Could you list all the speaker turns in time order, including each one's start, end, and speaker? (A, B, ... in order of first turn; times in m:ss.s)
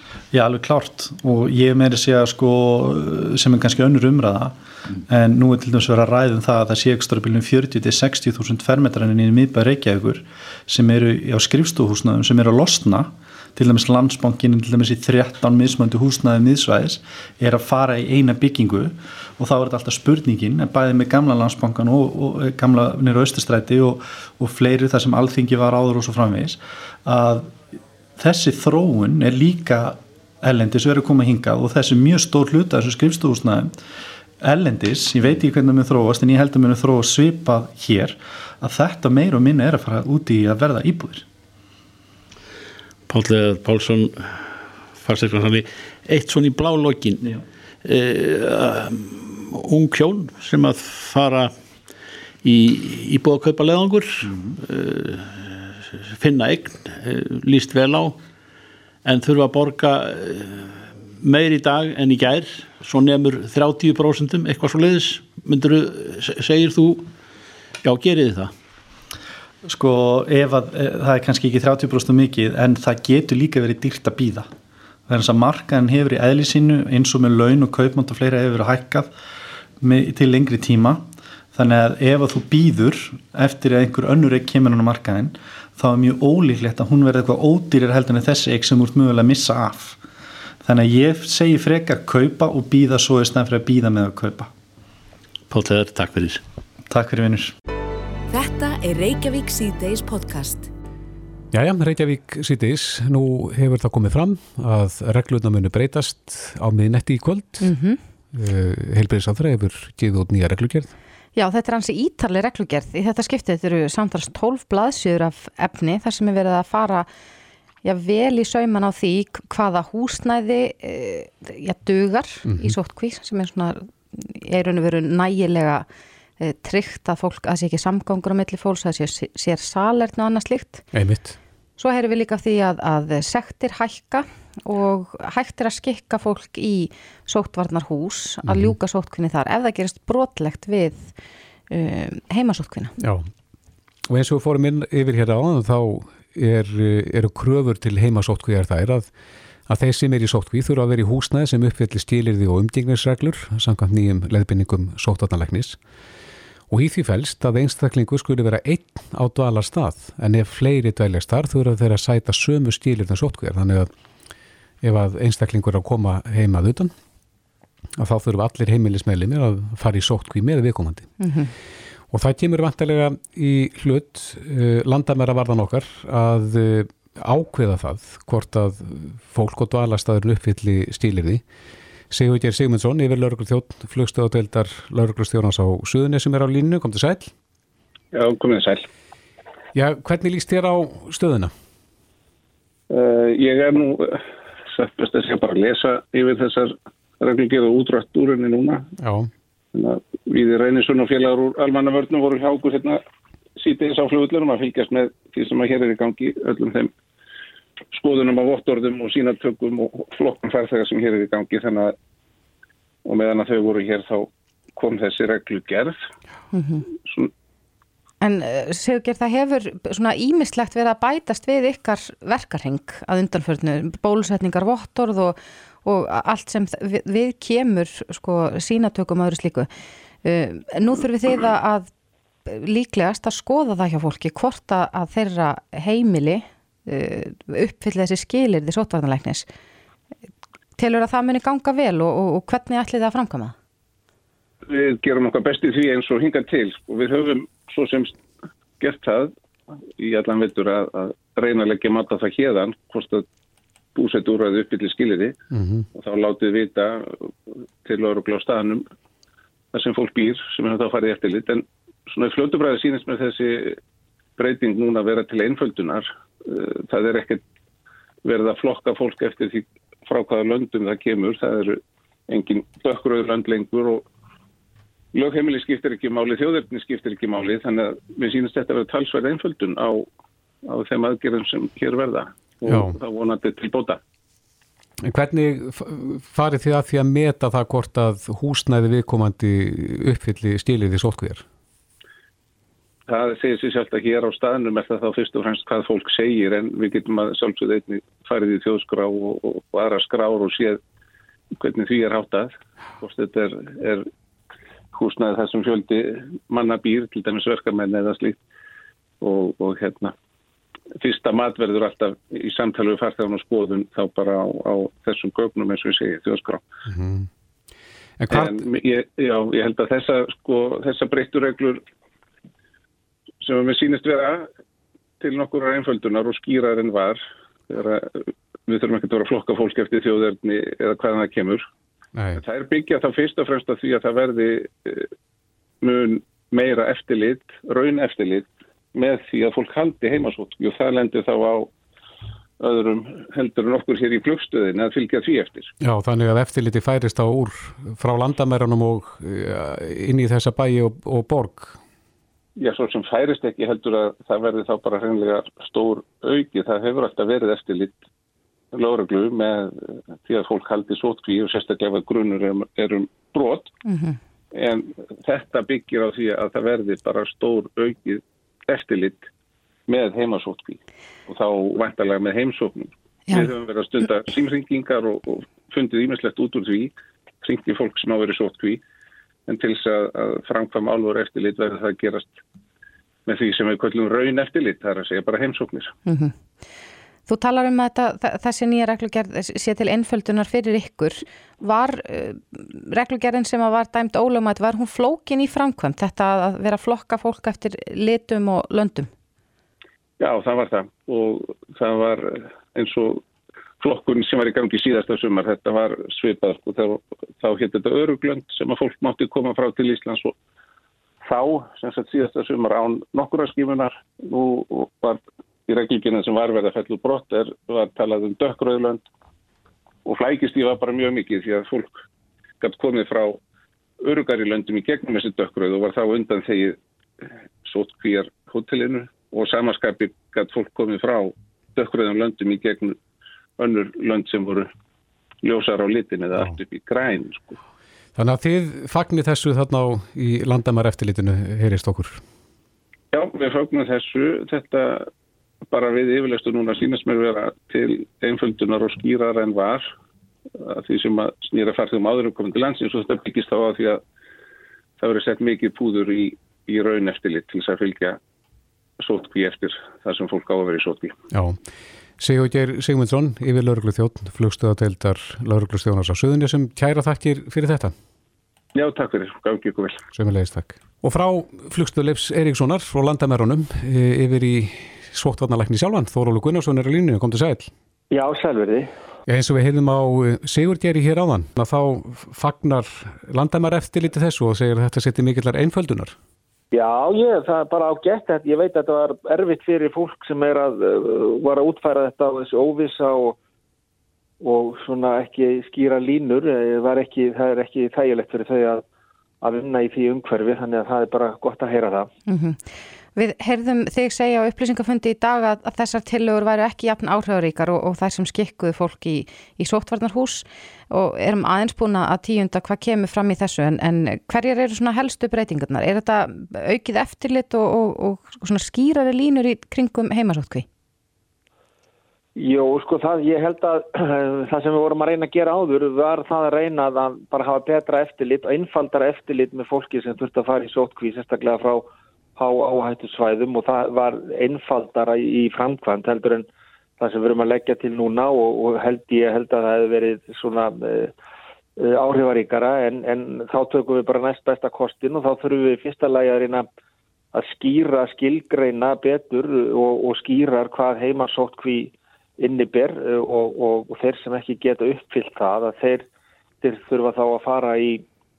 0:00.3-0:27.6 A
0:28.2-0:33.7 A
0:34.4-0:41.3 A
0:43.1-0:47.3 B
0:47.8-0:51.5 B
0:52.4-0:58.2 B
0:54.2-0:54.6 A
0:59.0-1:07.1 B
1:07.8-1:08.5 B
1:09.6-1:14.5 A
1:15.1-1:19.1 A
1:19.8-1:30.0 A
1:30.6-1:34.5 A
1:35.5-1:36.4 B
1:36.9-1:37.6 A
1:38.3-1:40.7 C
1:41.5-1:47.7 D
1:47.6-1:48.0 E
1:48.3-1:50.9 D
1:51.4-1:57.1 E
1:57.8-2:05.9 E
2:02.5-2:02.8 D
2:06.4-2:10.8 E
2:10.9-2:11.4 D
2:11.8-2:21.1 E
2:18.5-2:18.8 D
2:21.7-2:22.9 E
2:23.0-2:23.3 D
2:24.1-2:29.1 D
2:29.7-2:35.8 D
2:36.7-2:43.9 D
2:44.8-2:46.9 D
2:48.0-2:51.1 D
2:51.2-2:51.5 E
2:52.1-3:01.4 D
3:02.1-3:07.3 D
3:08.1-3:08.9 F
3:09.7-3:11.5 D
3:12.9-3:18.9 F
3:19.0-3:19.3 D
3:19.7-3:23.0 F
3:23.6-3:26.9 F
3:27.9-3:32.0 F
3:33.0-3:36.0 F
3:36.5-3:36.9 E
3:37.0-3:37.3 F
3:38.2-3:49.7 E
3:50.2-3:51.9 E
3:52.5-3:59.5 E
4:00.8-4:03.6 E
4:04.6-4:08.2 F
4:08.8-4:09.3 F
4:10.0-4:13.3 F
4:14.0-4:15.4 F
4:15.5-4:15.8 D
4:15.9-4:17.3 F
4:17.8-4:18.9 F
4:19.7-4:23.8 F
4:24.4-4:27.4 F
4:28.2-4:34.0 F
4:35.1-4:40.1 F
4:40.6-4:44.0 F
4:42.7-4:43.0 D
4:45.0-4:51.4 D
4:53.1-5:00.8 F
5:01.6-5:04.1 F
5:04.9-5:08.4 F
5:09.2-5:10.1 F
5:11.0-5:16.6 F
5:16.9-5:17.3 D
5:18.2-5:18.6 D
5:18.3-5:21.8 F
5:23.4-5:24.5 F
5:25.2-5:31.6 F
5:32.2-5:32.4 D
5:32.4-5:35.1 F
5:35.8-5:41.7 F
5:42.6-5:45.7 F
5:45.8-5:51.8 D
5:52.6-5:58.0 F
5:58.7-6:03.7 F
6:03.8-6:04.2 E
6:04.5-6:09.3 F
6:09.9-6:18.8 F
6:19.5-6:22.4 F
6:23.3-6:26.0 F
6:26.1-6:26.3 E
6:27.3-6:39.1 E
6:40.2-6:43.2 F
6:43.8-6:50.4 F
6:51.2-6:59.0 F
7:00.1-7:02.0 F
7:02.6-7:03.4 F
7:04.0-7:06.8 F
7:07.6-7:13.0 F
7:13.6-7:14.7 F
7:15.4-7:17.6 F
7:18.2-7:22.2 D
7:23.1-7:25.1 F
7:25.7-7:29.9 F
7:30.6-7:34.0 F
7:35.0-7:38.2 F
7:39.0-7:41.2 F
7:41.3-7:41.6 D
7:42.2-7:47.9 D
7:48.8-7:50.0 F
7:50.1-7:57.7 D
7:58.1-7:58.9 G
7:59.3-8:06.2 D
8:06.7-8:13.4 G
8:14.4-8:18.8 G
8:19.4-8:22.1 G
8:22.3-8:40.7 E
8:42.4-8:56.5 G
8:57.0-9:01.1 G
9:01.8-9:06.7 G
9:07.3-9:16.1 G
9:16.6-9:18.0 G